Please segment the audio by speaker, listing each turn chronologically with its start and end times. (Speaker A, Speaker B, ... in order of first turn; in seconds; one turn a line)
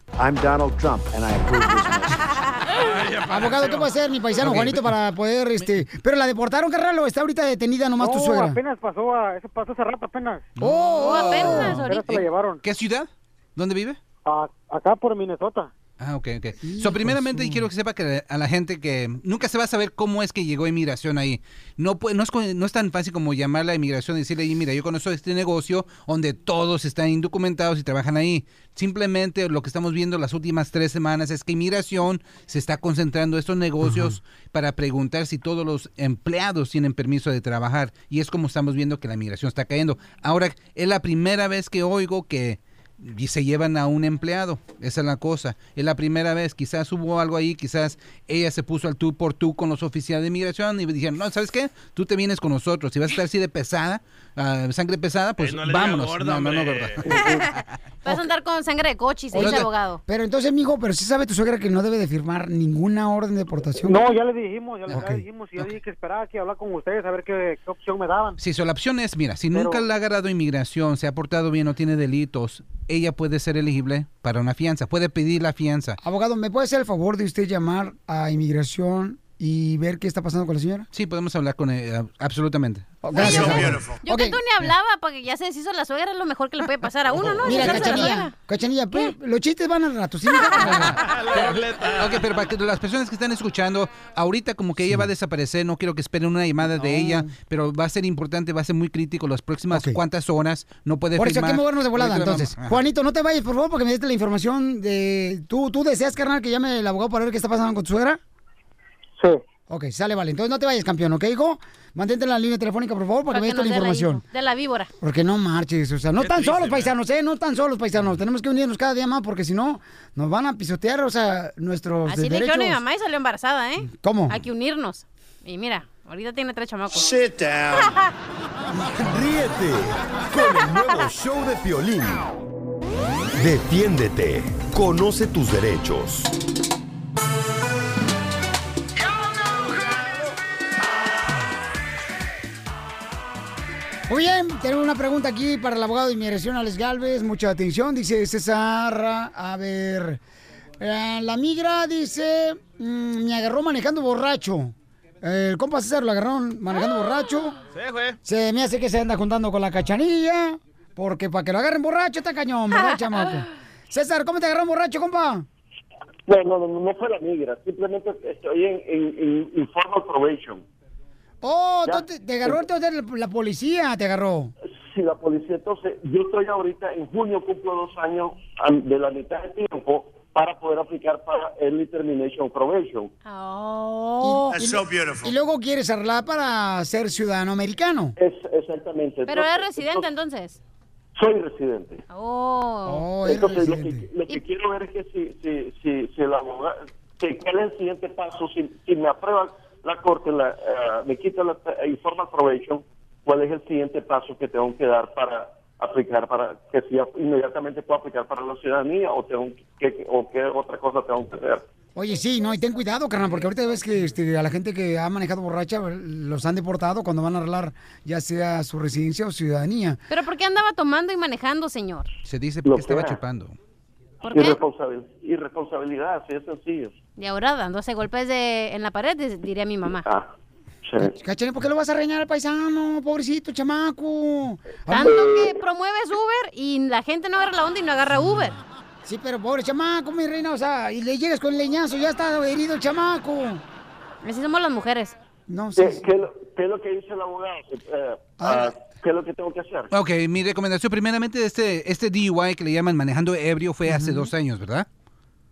Speaker A: 0.2-2.3
Speaker B: 2.7-3.9
Speaker C: 3.3-8.6
Speaker D: 4.4-4.9
Speaker E: 8.0-10.5
Speaker C: 10.6-11.9
Speaker D: 10.6-14.0
Speaker F: 11.0-12.2
Speaker E: 11.8-12.6
Speaker E: 14.2-15.7
Speaker D: 16.0-57.1
Speaker C: 16.6-17.7
Speaker C: 33.8-34.1
Speaker B: 55.4-57.1
Speaker F: 58.0-60.0
Speaker C: 59.3-64.1
Speaker D: 59.4-59.6
Speaker E: 63.9-68.4
Speaker C: 64.9-65.2
Speaker D: 68.4-76.0
Speaker E: 69.5-69.8
Speaker C: 76.0-80.9
Speaker D: 80.9-82.9
Speaker C: 83.0-84.4
Speaker F: 83.2-83.4
Speaker B: 83.3-83.8
Speaker F: 84.0-88.3
Speaker B: 87.2-87.6
Speaker C: 87.4-91.0
Speaker B: 91.0-92.2
Speaker D: 92.0-102.8
Speaker C: 94.8-95.1
Speaker C: 96.8-97.3
Speaker C: 99.7-100.0
Speaker C: 101.2-108.2
Speaker C: 109.7-114.2
Speaker F: 113.3-114.9
Speaker C: 115.0-122.8
Speaker B: 116.2-116.9
Speaker F: 122.1-127.2
Speaker C: 123.8-124.4
Speaker G: 128.9-132.3
Speaker G: 133.4-136.3
Speaker C: 144.1-150.2
Speaker C: 150.8-157.6
Speaker B: 157.7-158.2
Speaker C: 158.2-165.4
Speaker H: 166.3-170.6
Speaker C: 171.4-174.5
Speaker H: 171.8-172.6
Speaker H: 174.8-183.1
Speaker F: 183.2-184.5
Speaker C: 184.2-188.1
Speaker H: 188.2-190.1
Speaker F: 189.3-190.6
Speaker H: 191.2-192.0
Speaker F: 192.1-193.1
Speaker C: 192.8-194.1
Speaker H: 193.2-211.6
Speaker C: 211.9-220.0
Speaker F: 220.1-222.1
Speaker D: 222.2-223.6
Speaker H: 222.6-223.2
Speaker F: 224.3-224.6
Speaker H: 224.3-227.0
Speaker F: 227.2-230.1
Speaker H: 230.9-231.1
Speaker C: 231.0-235.2
Speaker F: 234.9-238.6
Speaker H: 235.1-235.5
Speaker C: 239.0-243.6
Speaker F: 244.2-245.2
Speaker C: 245.5-246.1
Speaker H: 245.8-249.9
Speaker C: 248.4-248.7
Speaker D: 249.9-254.9
Speaker C: 253.9-254.3